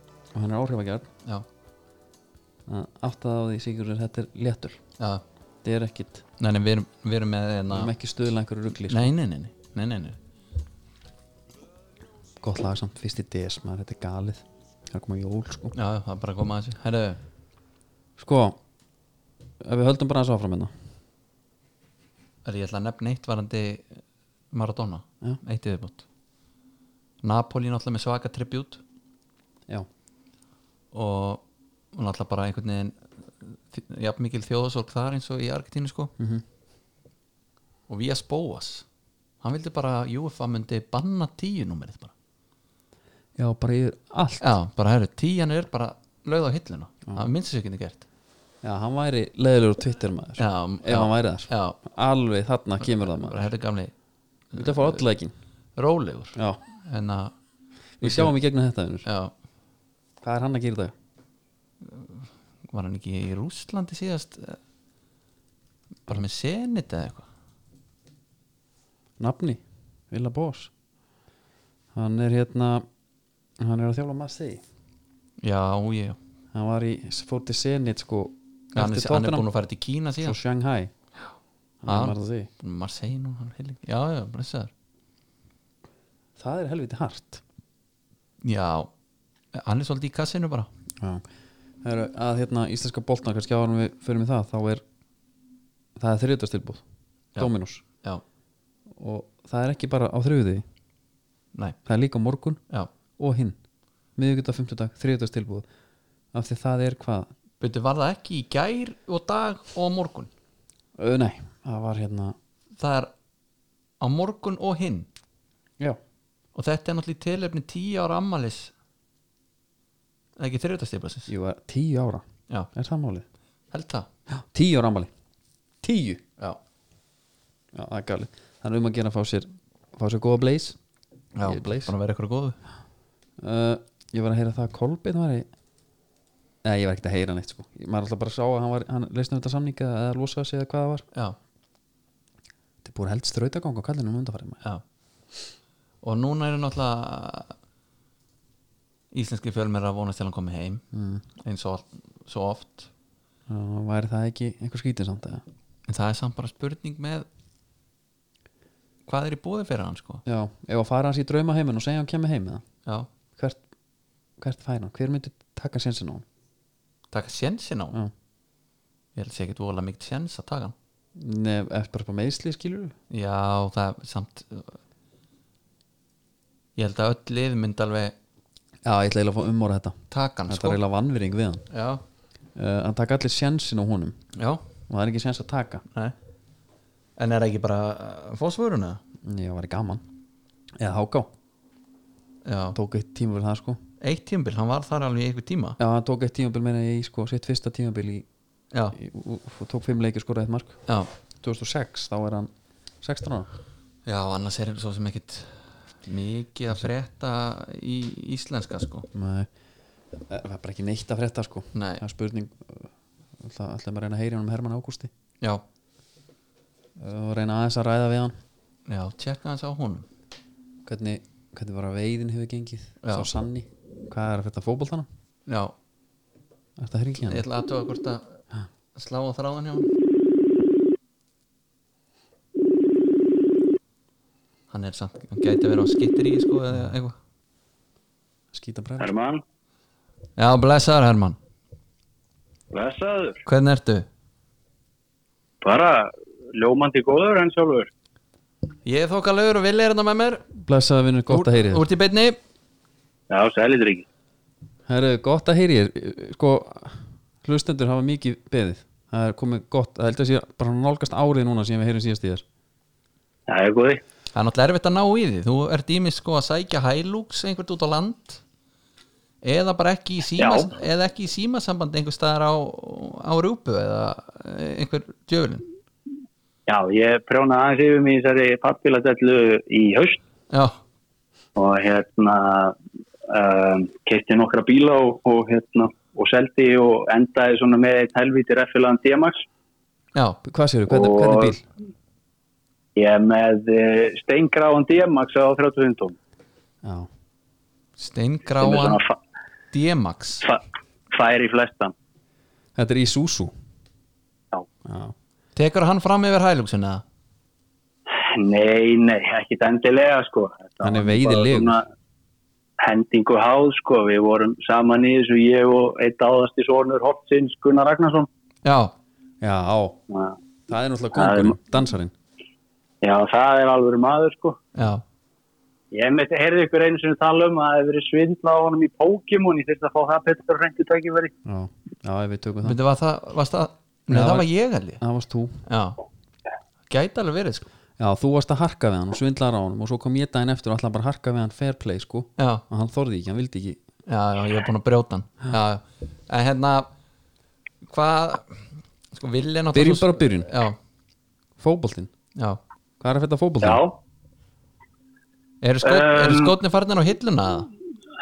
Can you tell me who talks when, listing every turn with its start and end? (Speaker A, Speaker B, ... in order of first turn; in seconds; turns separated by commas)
Speaker A: 0.3-1.1, Speaker A: 2.7-4.8, Speaker A: 5.6-6.2, Speaker B: 6.4-7.9, Speaker A: 7.7-9.1, Speaker B: 8.9-10.2, Speaker A: 12.4-15.7, Speaker B: 15.7-17.2, Speaker A: 18.2-18.6, Speaker A: 19.6-20.7, Speaker B: 22.4-23.9, Speaker B: 24.5-26.0, Speaker B: 27.2-28.8, Speaker B: 30.9-31.4, Speaker B: 31.9-36.1, Speaker A: 36.2-36.4, Speaker B: 37.9-38.8, Speaker B: 39.4-42.1, Speaker A: 43.4-44.4, Speaker B: 44.4-48.0, Speaker A: 48.6-53.4, Speaker B: 50.4-51.8, Speaker B: 52.8-53.9, Speaker B: 54.5-55.0, Speaker A: 54.6-55.3, Speaker B: 55.8-57.3, Speaker A: 58.0-59.0, Speaker B: 58.0-58.4, Speaker B: 59.0-59.3, Speaker A: 60.2-60.9, Speaker B: 61.8-64.6, Speaker B: 66.1-67.3, Speaker A: 69.2-70.7, Speaker A: 71.9-72.8, Speaker A: 73.6-74.6, Speaker B: 75.4-76.2, Speaker A: 76.5-79.5, Speaker B: 78.7-80.4, Speaker A: 80.2-80.9, Speaker A: 81.8-82.5, Speaker B: 81.9-84.7, Speaker A: 86.4-87.4, Speaker B: 88.4-88.9, Speaker B: 89.5-90.7, Speaker A: 91.0-91.2, Speaker A: 91.8-94.8, Speaker A: 96.0-96.8, Speaker A: 97.4-97.8, Speaker A: 98.9-100.6, Speaker A: 101.8-102.6, Speaker A: 103.2-103.6, Speaker A: 104.2-105.7, Speaker A: 106.3-107.3, Speaker B: 107.6-110.3, Speaker A: 111.0-112.3, Speaker B: 112.8-113.1, Speaker B: 114.0-115.1, Speaker B: 116.5-118.7, Speaker B: 120.4-121.3, Speaker A: 121.3-123.2, Speaker B: 123.7-124.1, Speaker A: 124.3-125.1, Speaker A: 125.8-126.2, Speaker A: 127.7-130.8, Speaker B: 131.3-132.6, Speaker A: 131.4-131.9, Speaker A: 133.4-135.5, Speaker A: 136.6-141.0, Speaker A: 142.8-144.6, Speaker B: 146.0-147.5, Speaker B: 149.1-150.8, Speaker A: 150.9-151.2, Speaker B: 151.4-152.9, Speaker A: 153.5-155.4, Speaker B: 155.9-157.3, Speaker B: 159.1-160.2, Speaker A: 160.2-162.6, Speaker A: 163.3-163.6, Speaker A: 164.4-166.2, Speaker B: 167.1-168.0, Speaker B: 169.2-170.7, Speaker A: 171.2-172.9, Speaker B: 173.1-174.8, Speaker B: 176.8-178.1, Speaker A: 178.8-181.7, Speaker B: 180.1-180.8, Speaker B: 181.7-182.0, Speaker A: 182.5-184.2, Speaker B: 184.3-184.6, Speaker A: 184.9-185.8, Speaker B: 187.2-189.0, Speaker A: 189.2-190.0, Speaker A: 190.8-191.3, Speaker B: 192.4-192.8, Speaker A: 192.7-193.8, Speaker B: 194.0-195.8, Speaker A: 195.8-198.2, Speaker A: 198.9-200.8, Speaker A: 201.4-202.5, Speaker A: 203.0-203.5, Speaker B: 204.1-209.1, Speaker A: 209.1-209.5, Speaker A: 210.3-215.1, Speaker B: 211.7-212.0, Speaker A: 217.0-218.3, Speaker B: 218.9-220.1, Speaker A: 220.8-225.1, Speaker B: 223.0-223.3, Speaker B: 225.5-225.7, Speaker A: 226.8-227.4, Speaker B: 227.2-228.4, Speaker B: 228.9-229.9, Speaker B: 234.7-237.2, Speaker A: 238.5-239.1, Speaker C: 239.0-239.4, Speaker B: 240.4-241.4, Speaker C: 242.7-243.4, Speaker B: 243.4-244.1, Speaker C: 245.6-247.9, Speaker B: 248.8-250.4, Speaker A: 250.6-251.8, Speaker B: 251.3-252.4, Speaker C: 253.3-254.1, Speaker A: 254.9-262.4, Speaker C: 263.5-264.0, Speaker B: 264.3-268.4, Speaker B: 269.4-275.6, Speaker C: 270.4-270.7, Speaker C: 276.7-280.2, Speaker B: 280.5-280.8, Speaker C: 281.6-282.8, Speaker C: 283.3-289.4, Speaker B: 290.1-290.4, Speaker A: 290.4-291.6, Speaker C: 290.9-291.5, Speaker C: 292.9-296.1, Speaker A: 296.8-297.1, Speaker B: 298.0-299.0, Speaker C: 298.6-299.1, Speaker B: 299.7-300.4, Speaker C: 301.1-301.9, Speaker A: 302.8-303.5, Speaker A: 304.8-305.1, Speaker B: 305.6-307.0, Speaker C: 308.2-311.8, Speaker A: 310.8-311.8, Speaker C: 312.8-318.3, Speaker B: 318.6-318.9, Speaker A: 319.4-320.0, Speaker C: 320.1-320.4, Speaker A: 320.7-322.1, Speaker C: 321.1-321.6, Speaker C: 323.0-324.6, Speaker B: 324.7-325.0, Speaker C: 325.9-331.3, Speaker A: 331.4-332.8, Speaker B: 332.6-335.0, Speaker A: 334.1-334.5, Speaker A: 335.0-335.6, Speaker B: 335.6-336.0, Speaker B: 336.9-337.7, Speaker A: 338.0-343.8, Speaker B: 342.4-342.6, Speaker B: 344.1-346.9, Speaker B: 347.9-350.8, Speaker A: 349.7-350.5, Speaker A: 351.6-352.1, Speaker A: 353.0-353.8, Speaker C: 353.6-354.0, Speaker B: 355.6-357.7, Speaker C: 355.8-356.5